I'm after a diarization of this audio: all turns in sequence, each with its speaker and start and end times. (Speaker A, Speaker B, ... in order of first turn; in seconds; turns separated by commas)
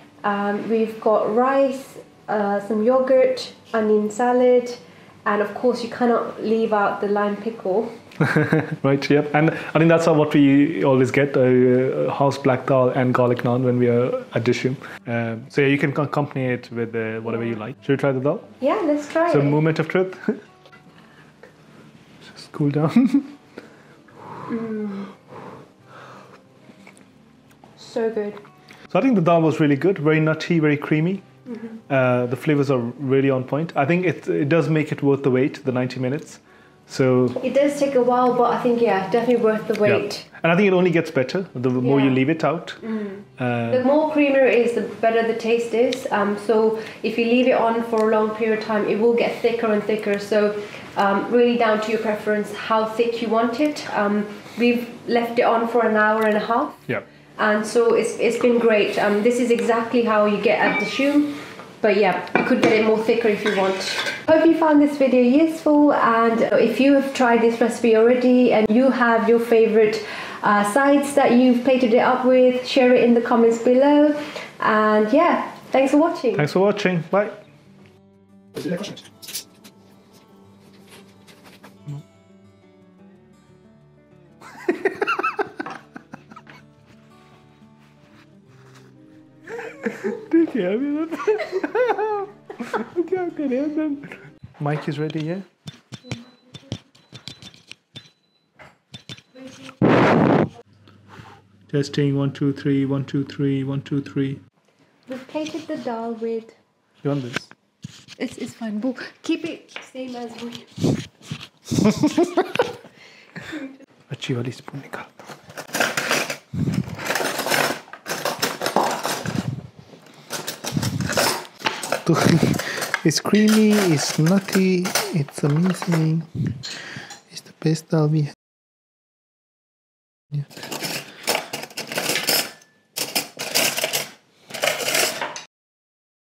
Speaker A: 0.2-7.9, Speaker B: 8.2-18.5, Speaker A: 18.6-19.6, Speaker B: 19.3-20.4, Speaker B: 22.2-23.4, Speaker A: 24.5-25.1, Speaker A: 27.8-28.4, Speaker B: 28.9-31.2, Speaker A: 31.5-31.8, Speaker B: 31.9-37.4, Speaker A: 37.4-40.2, Speaker B: 39.8-43.8, Speaker A: 41.8-42.2, Speaker A: 42.8-56.8, Speaker A: 57.4-76.5, Speaker B: 76.4-77.4, Speaker B: 78.6-79.0, Speaker B: 89.7-95.5, Speaker B: 101.7-104.4, Speaker A: 105.1-106.6, Speaker B: 107.0-107.5, Speaker A: 108.2-110.9, Speaker B: 114.1-115.3, Speaker B: 122.0-126.7, Speaker B: 127.3-128.3